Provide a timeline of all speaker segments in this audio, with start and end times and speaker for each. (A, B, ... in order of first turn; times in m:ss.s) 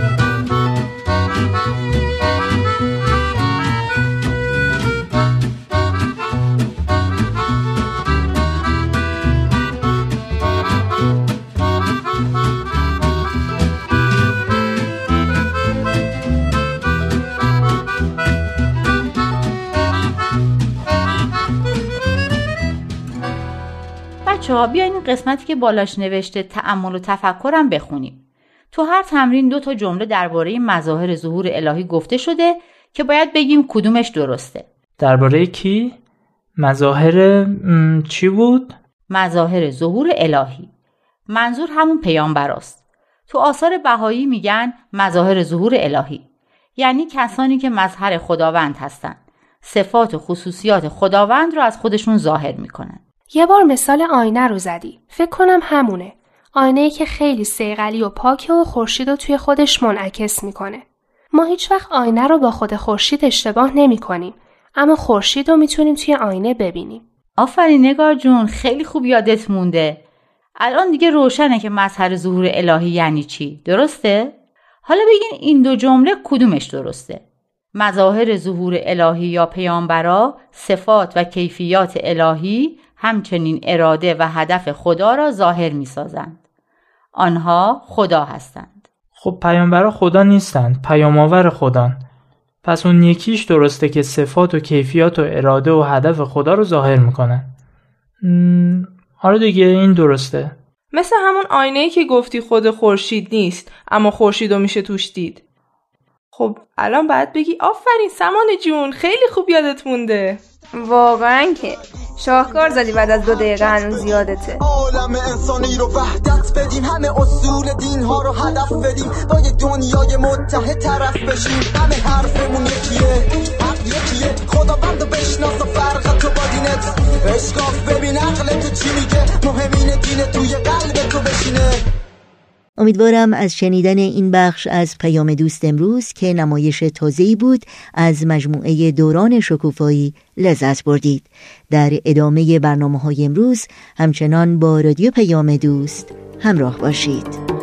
0:24.2-0:28.2 A
0:28.7-0:34.7 A
0:35.0-0:36.0 B
0:36.6-0:38.8 B
0:39.1-0:40.7 A
0:41.3-0:42.8 A
0:43.3-0:46.2 A
0:46.8-0:53.0 A
0:53.3-1:07.0 C
1:07.4-1:10.0 A
1:10.6-1:14.3 A
1:14.8-1:17.2 A
1:17.7-1:26.4 A
1:27.1-1:28.8 A
1:29.2-1:32.0 B
1:32.6-1:37.5 B
1:38.2-1:40.6 B
1:40.9-1:45.4 D
1:46.3-1:50.4 D
1:50.8-1:54.6 E
1:52.2-2:11.8 F
2:12.8-2:27.4 G